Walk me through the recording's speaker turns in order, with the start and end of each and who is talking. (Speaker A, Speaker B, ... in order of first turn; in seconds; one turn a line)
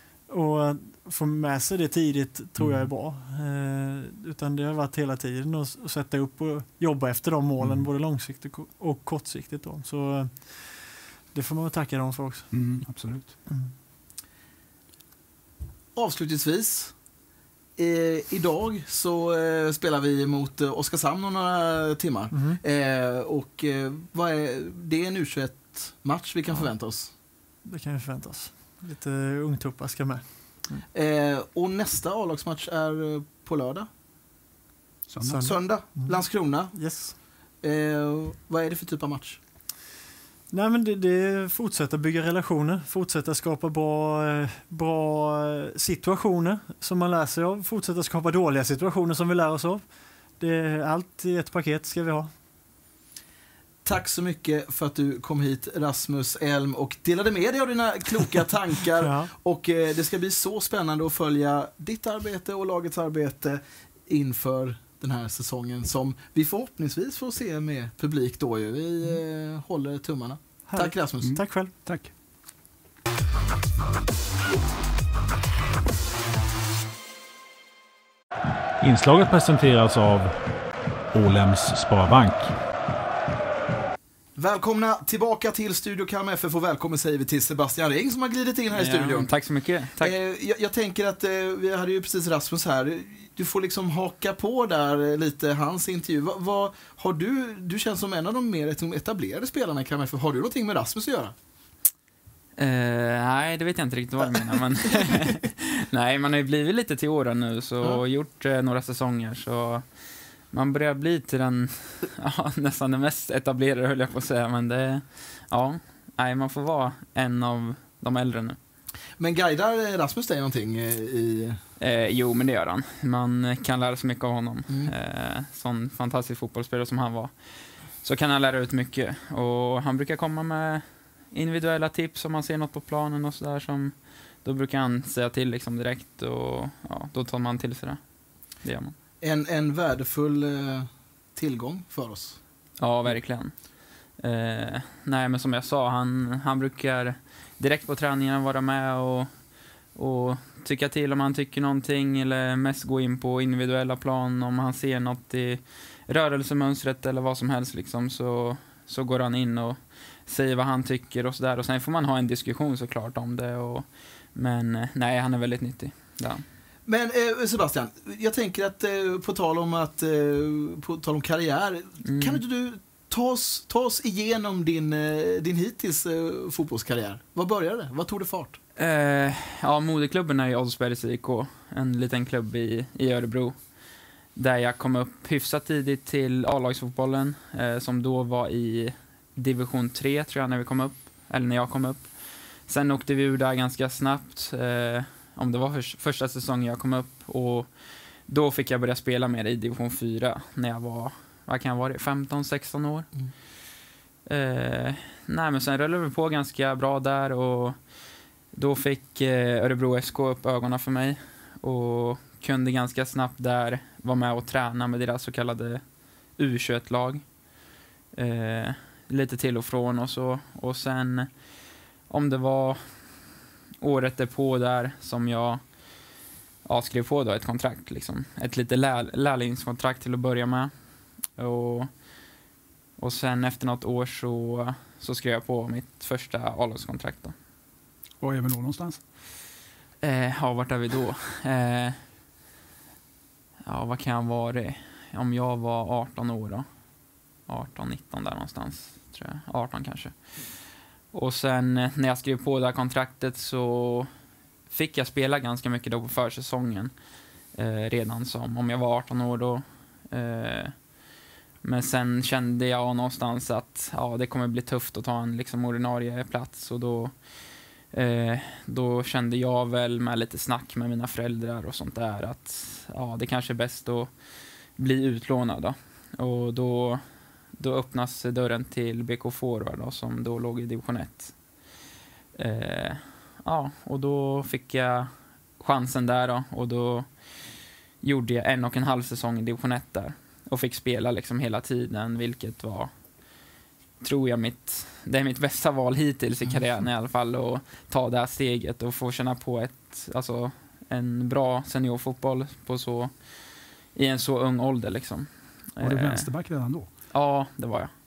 Speaker A: 0.3-12.8
Speaker B: 2.6-2.9
Speaker B: 7.6-7.9
Speaker B: 12.5-13.3
Speaker A: 13.4-13.7
Speaker C: 15.9-16.9
Speaker C: 17.8-27.1
Speaker A: 22.3-22.6
Speaker A: 27.6-30.8
Speaker C: 30.9-33.9
Speaker B: 35.1-35.5
Speaker A: 35.2-37.1
Speaker C: 35.4-37.0
Speaker C: 37.6-39.4
Speaker A: 40.5-49.9
Speaker A: 50.4-52.3
Speaker C: 53.8-71.3
Speaker A: 59.0-59.3
Speaker A: 70.7-71.7
Speaker B: 71.2-72.1
Speaker D: 78.8-80.3
Speaker D: 81.1-82.5
Speaker C: 84.3-89.3
Speaker E: 88.7-90.1
Speaker C: 90.0-101.3
Speaker E: 102.6-118.6
Speaker C: 119.2-121.6
Speaker E: 121.8-138.0
Speaker E: 138.6-138.9
Speaker C: 139.2-142.4
Speaker E: 142.8-166.4
Speaker C: 166.8-178.6
Speaker E: 172.0-172.4
Speaker E: 178.8-183.7
Speaker E: 184.3-203.1
Speaker E: 204.2-217.3
Speaker E: 218.1-223.3
Speaker E: 223.8-226.1
Speaker E: 226.6-232.1
Speaker E: 233.0-237.3
Speaker B: 238.2-239.0
Speaker E: 240.0-242.0
Speaker E: 243.7-246.7
Speaker E: 247.4-254.1
Speaker E: 254.7-260.9
Speaker E: 261.6-281.4
Speaker E: 282.4-292.9
Speaker E: 294.0-306.3
Speaker B: 305.8-307.1
Speaker E: 307.1-307.9